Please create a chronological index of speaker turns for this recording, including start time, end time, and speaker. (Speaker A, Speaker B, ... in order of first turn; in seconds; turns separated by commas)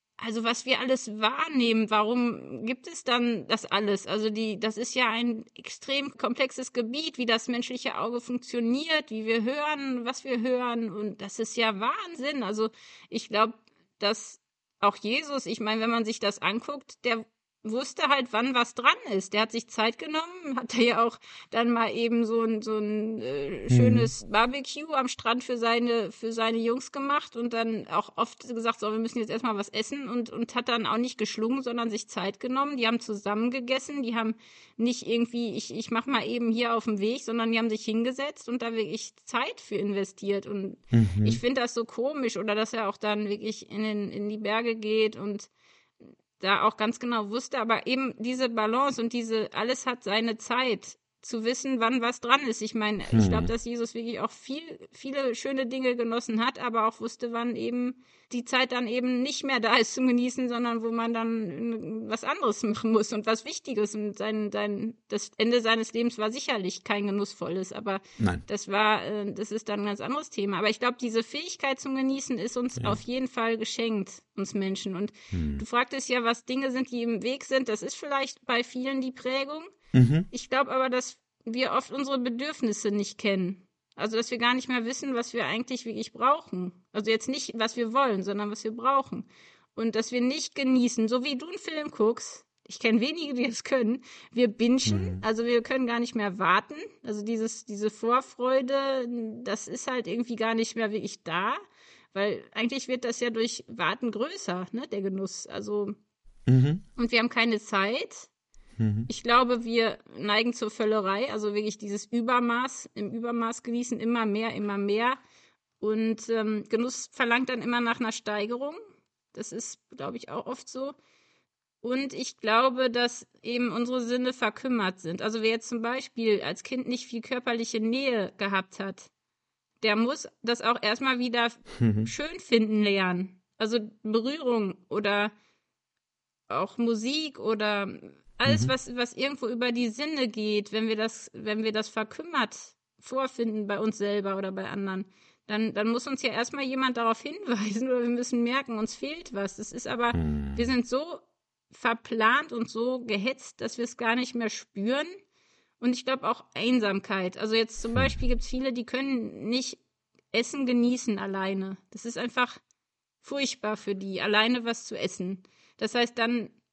Speaker A: 0.2-45.5, Speaker B: 23.7-24.1, Speaker B: 40.9-41.4, Speaker A: 46.4-79.7, Speaker B: 53.1-53.5, Speaker B: 75.3-75.6, Speaker B: 79.9-80.3, Speaker A: 80.3-101.6, Speaker B: 94.9-95.2, Speaker A: 102.1-106.0, Speaker B: 106.5-106.8, Speaker A: 107.0-108.3, Speaker B: 108.8-109.1, Speaker A: 109.1-115.2, Speaker A: 115.8-118.8, Speaker A: 119.3-120.9, Speaker A: 121.8-129.1, Speaker A: 129.8-135.3, Speaker B: 131.8-132.1, Speaker A: 136.5-155.1, Speaker B: 138.5-138.7, Speaker B: 150.1-150.7, Speaker A: 155.8-159.8, Speaker B: 157.9-158.2, Speaker A: 160.3-162.6, Speaker A: 163.2-166.5